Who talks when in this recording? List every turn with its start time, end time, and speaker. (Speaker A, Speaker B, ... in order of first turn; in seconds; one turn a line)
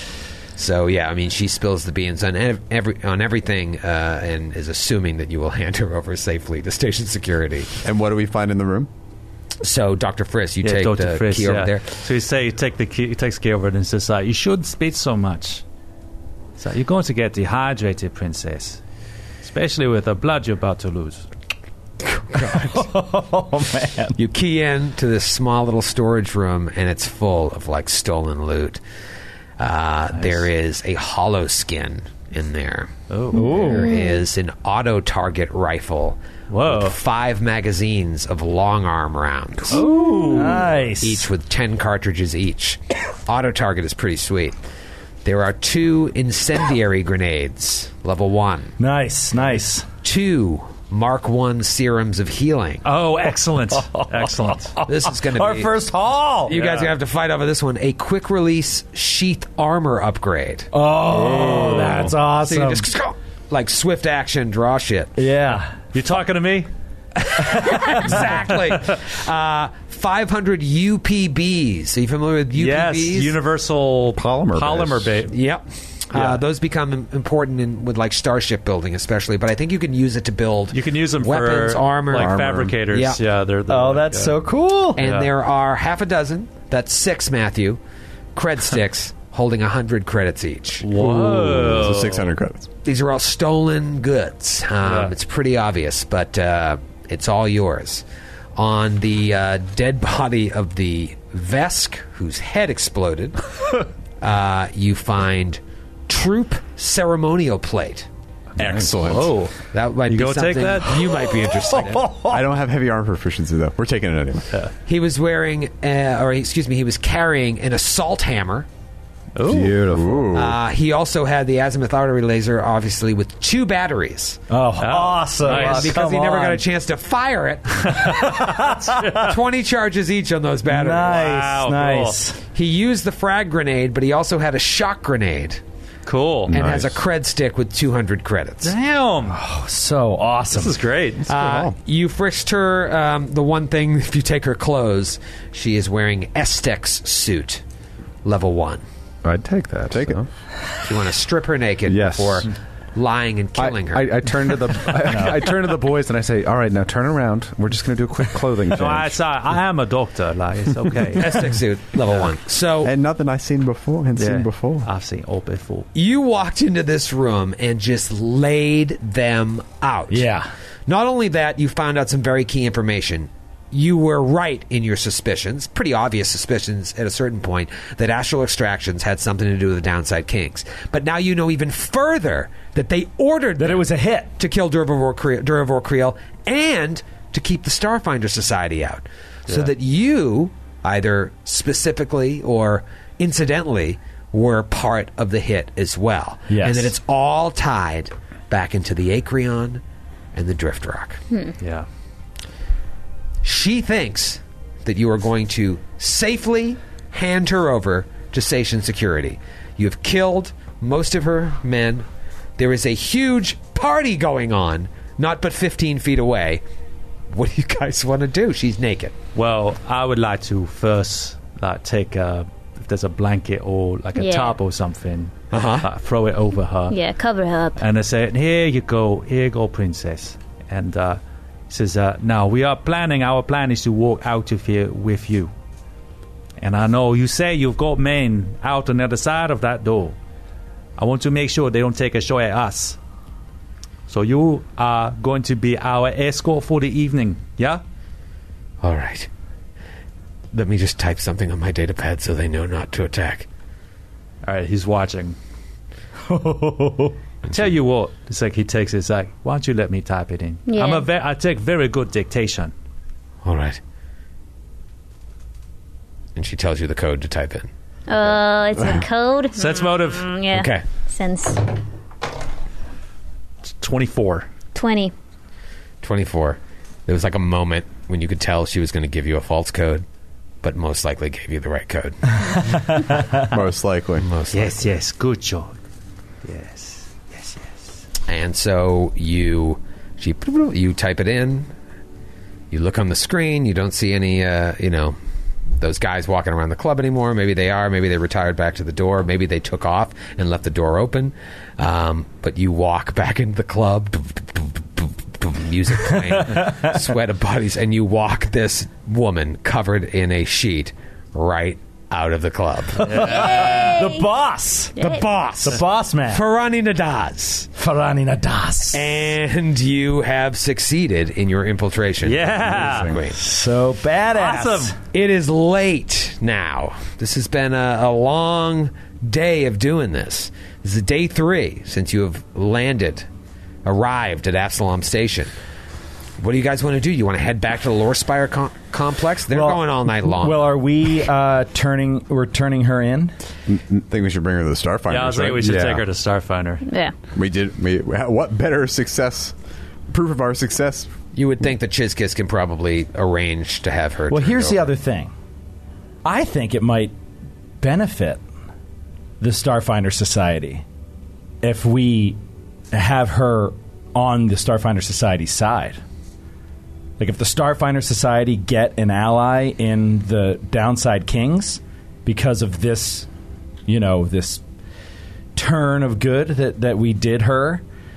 Speaker A: 0.6-7.8
Speaker B: 7.8-8.9
Speaker A: 9.6-12.0
Speaker C: 10.6-15.6
Speaker C: 16.6-18.8
Speaker C: 19.4-21.2
Speaker D: 22.3-24.2
Speaker A: 24.2-28.8
Speaker A: 29.6-32.9
Speaker C: 30.1-30.5
Speaker C: 33.1-33.8
Speaker D: 33.3-33.9
Speaker E: 33.6-34.2
Speaker A: 33.6-39.9
Speaker C: 36.5-37.0
Speaker C: 39.7-40.7
Speaker D: 40.3-41.3
Speaker A: 41.0-44.5
Speaker A: 45.2-48.7
Speaker D: 48.8-49.9
Speaker A: 50.0-52.8
Speaker C: 52.8-54.7
Speaker D: 53.3-56.5
Speaker A: 54.9-55.7
Speaker A: 56.5-60.7
Speaker C: 56.5-56.9
Speaker D: 60.7-62.9
Speaker C: 61.1-62.1
Speaker A: 62.5-65.1
Speaker D: 65.2-65.8
Speaker C: 65.9-66.7
Speaker A: 67.2-73.4
Speaker C: 72.5-75.3
Speaker F: 74.1-75.2
Speaker A: 75.3-83.2
Speaker C: 76.1-76.4
Speaker C: 80.7-84.4
Speaker F: 82.2-82.7
Speaker D: 83.7-85.0
Speaker C: 85.0-85.3
Speaker A: 85.0-87.8
Speaker A: 88.3-90.9
Speaker C: 90.8-92.3
Speaker B: 91.3-92.7
Speaker A: 92.8-98.0
Speaker C: 94.8-95.1
Speaker A: 98.5-108.1
Speaker C: 108.6-109.5
Speaker F: 108.6-108.9
Speaker B: 108.6-109.3
Speaker A: 109.7-112.1
Speaker C: 110.1-111.3
Speaker D: 112.0-112.3
Speaker B: 112.3-114.5
Speaker A: 114.8-118.7
Speaker C: 119.3-120.0
Speaker F: 119.4-120.3
Speaker B: 119.9-120.5
Speaker A: 120.3-124.4
Speaker D: 124.5-126.6
Speaker C: 124.8-126.0
Speaker A: 125.4-128.5
Speaker C: 127.9-129.3
Speaker D: 128.2-129.0
Speaker A: 129.1-131.2
Speaker D: 130.7-132.4
Speaker C: 131.0-132.2
Speaker A: 132.5-135.6
Speaker C: 136.1-136.6
Speaker F: 136.5-136.8
Speaker A: 136.5-138.7
Speaker B: 136.6-136.8
Speaker C: 138.6-139.4
Speaker D: 139.3-140.8
Speaker C: 140.5-141.3
Speaker A: 141.3-147.6
Speaker A: 148.2-148.8
Speaker F: 149.2-150.3
Speaker B: 149.9-150.2
Speaker A: 150.8-154.1
Speaker F: 151.8-152.5
Speaker F: 153.6-159.2
Speaker C: 158.7-161.5
Speaker A: 161.2-162.9
Speaker B: 162.8-164.9
Speaker C: 164.2-165.9
Speaker A: 165.9-170.3
Speaker D: 170.1-170.5
Speaker A: 170.9-199.8
Speaker D: 183.6-184.3
Speaker D: 196.5-196.9
Speaker A: 200.3-201.2
Speaker C: 201.6-201.9
Speaker A: 203.4-212.1
Speaker A: 212.6-216.6
Speaker A: 217.3-219.2
Speaker C: 219.3-227.0
Speaker E: 224.2-224.6
Speaker A: 225.5-225.9
Speaker E: 226.9-227.8
Speaker C: 227.8-235.5
Speaker C: 236.6-240.2
Speaker C: 241.0-243.0
Speaker C: 244.1-247.8
Speaker A: 248.8-249.3
Speaker A: 250.5-253.5
Speaker C: 254.4-255.4
Speaker D: 256.3-257.1
Speaker C: 257.5-262.7
Speaker E: 260.7-261.1
Speaker A: 263.4-263.8
Speaker A: 266.3-267.7
Speaker E: 268.1-271.6
Speaker C: 269.5-270.4
Speaker A: 270.5-270.8
Speaker C: 273.8-274.5
Speaker E: 274.7-275.1
Speaker A: 276.0-280.0
Speaker A: 280.6-282.6
Speaker D: 282.6-283.4
Speaker B: 283.5-284.3
Speaker A: 284.2-284.9
Speaker C: 284.5-285.8
Speaker C: 286.4-287.8
Speaker A: 288.3-291.7
Speaker A: 292.7-295.1
Speaker A: 295.8-313.6
Speaker D: 306.4-306.9
Speaker D: 313.0-315.0
Speaker C: 313.0-313.6
Speaker E: 313.6-314.2
Speaker E: 314.9-315.3
Speaker A: 315.0-317.7
Speaker D: 315.6-316.4
Speaker D: 317.8-319.0
Speaker A: 318.9-323.4
Speaker C: 322.2-323.2
Speaker D: 323.3-324.9
Speaker C: 324.3-324.9
Speaker A: 325.1-333.3
Speaker A: 333.8-335.5
Speaker A: 336.4-340.7
Speaker D: 339.5-343.3
Speaker B: 343.7-346.0
Speaker C: 345.1-346.8
Speaker F: 345.6-346.0
Speaker E: 346.8-347.1
Speaker B: 347.3-349.5
Speaker B: 350.1-351.1
Speaker A: 351.3-354.9
Speaker D: 354.3-355.3
Speaker D: 356.2-357.1
Speaker D: 357.8-358.4
Speaker D: 359.4-360.8
Speaker D: 361.6-362.4
Speaker D: 362.9-366.0
Speaker D: 367.2-373.3
Speaker D: 373.9-374.6
Speaker D: 375.6-377.8